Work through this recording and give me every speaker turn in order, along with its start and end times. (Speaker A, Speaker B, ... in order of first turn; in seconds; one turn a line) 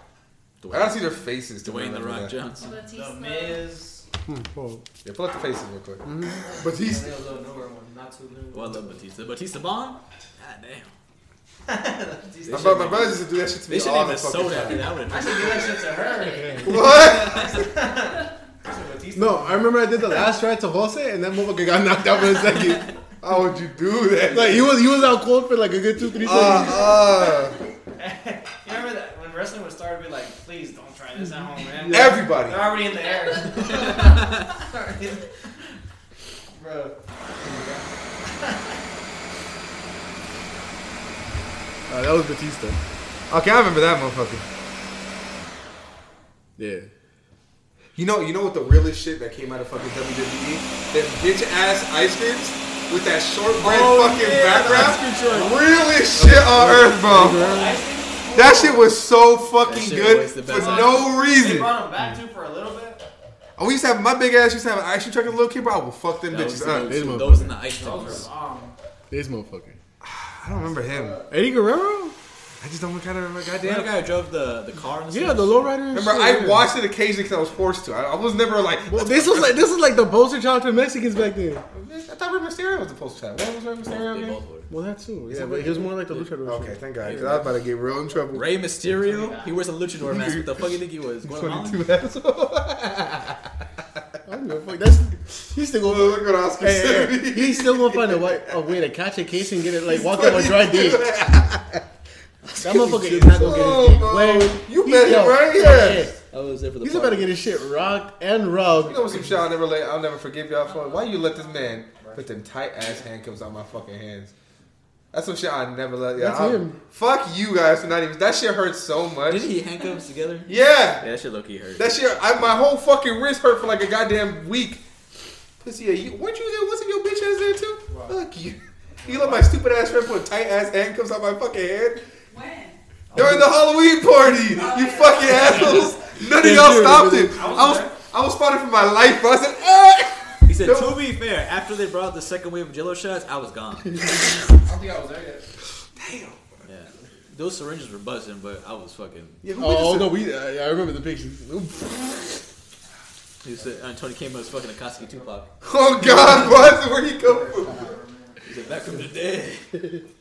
Speaker A: 0.6-2.8
Speaker B: 0.7-2.4
Speaker C: 2.6-3.6
Speaker D: 2.8-4.0
Speaker E: 4.3-4.8
Speaker B: 5.0-7.2
Speaker E: 6.0-6.4
Speaker D: 6.7-9.0
Speaker A: 8.5-10.9
Speaker D: 11.7-13.2
Speaker A: 12.5-12.9
Speaker B: 12.5-14.9
Speaker A: 13.7-17.6
Speaker D: 14.9-20.0
Speaker B: 16.6-17.6
Speaker E: 19.1-22.9
Speaker A: 22.5-22.9
Speaker B: 23.2-24.8
Speaker E: 24.3-26.9
Speaker B: 26.2-27.6
Speaker C: 26.9-27.6
Speaker D: 27.9-35.7
Speaker E: 31.8-32.1
Speaker B: 31.9-32.7
Speaker D: 36.5-38.8
Speaker E: 41.9-42.8
Speaker B: 43.3-44.4
Speaker E: 46.6-46.9
Speaker B: 48.0-57.5
Speaker A: 53.6-55.6
Speaker E: 56.1-57.8
Speaker D: 57.1-58.9
Speaker B: 58.3-61.8
Speaker A: 59.6-61.1
Speaker D: 60.5-63.0
Speaker B: 63.6-66.9
Speaker A: 66.3-68.3
Speaker E: 66.8-67.5
Speaker D: 67.6-68.8
Speaker E: 69.1-69.8
Speaker B: 70.0-71.2
Speaker D: 70.6-71.2
Speaker E: 71.3-72.2
Speaker B: 72.6-74.0
Speaker A: 73.6-75.7
Speaker E: 75.1-76.7
Speaker B: 75.9-79.7
Speaker E: 78.9-81.6
Speaker B: 81.7-84.4
Speaker A: 83.8-84.7
Speaker E: 84.7-86.8
Speaker B: 85.3-88.5
Speaker A: 87.0-87.6
Speaker A: 88.3-91.8
Speaker D: 88.9-89.6
Speaker B: 90.1-90.6
Speaker B: 91.2-93.5
Speaker E: 94.2-101.1
Speaker B: 95.8-98.8
Speaker B: 99.8-101.9
Speaker A: 102.4-103.5
Speaker E: 102.6-106.2
Speaker B: 102.7-106.1
Speaker A: 106.3-107.4
Speaker E: 106.8-109.2
Speaker D: 108.8-109.3
Speaker B: 108.8-114.3
Speaker C: 110.6-111.8
Speaker D: 111.9-112.3
Speaker B: 115.1-119.5
Speaker E: 116.2-116.8
Speaker A: 119.3-122.0
Speaker B: 120.5-121.1
Speaker B: 121.8-124.8
Speaker B: 125.6-132.1
Speaker D: 127.9-128.2
Speaker D: 129.0-129.5
Speaker C: 132.3-132.8
Speaker B: 133.1-141.1
Speaker C: 134.6-135.8
Speaker D: 135.4-136.1
Speaker E: 136.2-137.6
Speaker D: 137.3-138.0
Speaker A: 140.5-144.2
Speaker D: 144.6-145.4
Speaker B: 145.9-146.6
Speaker A: 146.6-149.4
Speaker B: 149.4-150.2
Speaker E: 149.6-151.4
Speaker B: 151.4-152.3
Speaker A: 153.4-155.5
Speaker B: 155.6-157.9
Speaker A: 156.2-156.7
Speaker D: 157.2-158.8
Speaker A: 158.4-160.0